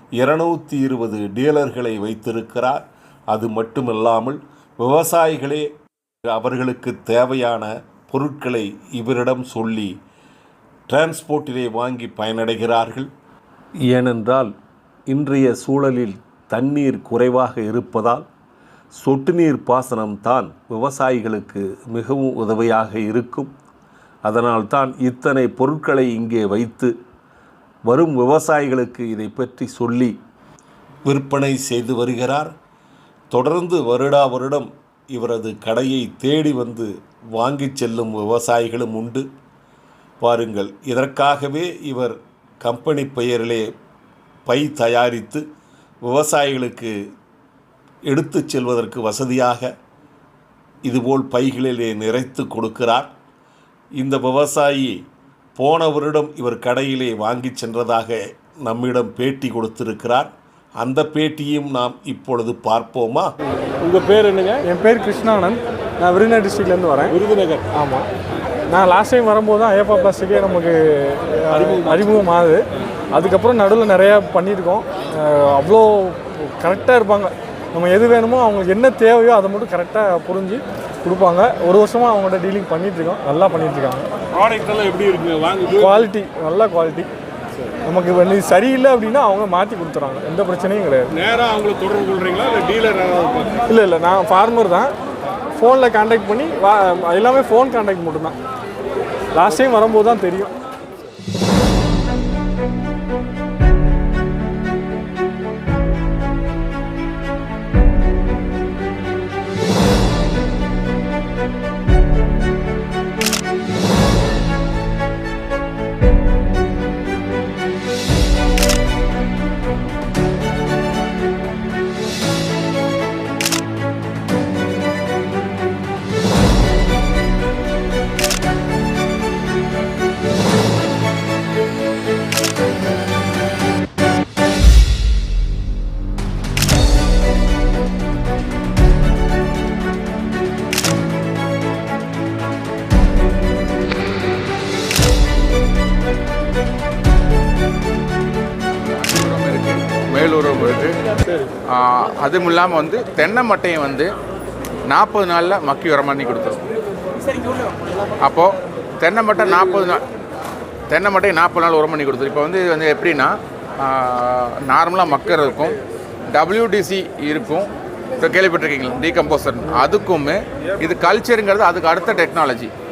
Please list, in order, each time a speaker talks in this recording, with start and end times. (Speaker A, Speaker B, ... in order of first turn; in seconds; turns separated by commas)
Speaker A: 0.2-5.7, Speaker A: 6.2-10.0, Speaker A: 10.9-13.1, Speaker A: 13.9-14.5, Speaker A: 15.1-18.3, Speaker A: 18.9-23.5, Speaker A: 24.2-26.9, Speaker A: 27.9-30.2, Speaker A: 31.1-32.5, Speaker A: 33.3-39.3, Speaker A: 40.2-43.7, Speaker A: 44.5-45.4, Speaker A: 46.0-47.0, Speaker A: 48.1-49.7, Speaker A: 50.9-53.1, Speaker A: 54.0-55.0, Speaker A: 55.6-63.3, Speaker B: 63.8-64.6, Speaker C: 64.6-67.2, Speaker B: 67.1-67.7, Speaker C: 67.7-68.1, Speaker C: 68.7-84.1, Speaker B: 71.7-72.0, Speaker B: 84.3-85.9, Speaker C: 85.8-87.1, Speaker C: 87.8-91.2, Speaker B: 91.2-93.6, Speaker C: 93.7-94.9, Speaker C: 95.6-98.4, Speaker C: 99.3-100.5, Speaker D: 148.8-151.0, Speaker D: 151.7-154.1, Speaker D: 154.9-156.6, Speaker D: 158.2-160.1, Speaker D: 160.9-165.8, Speaker D: 166.3-167.7, Speaker D: 168.2-172.7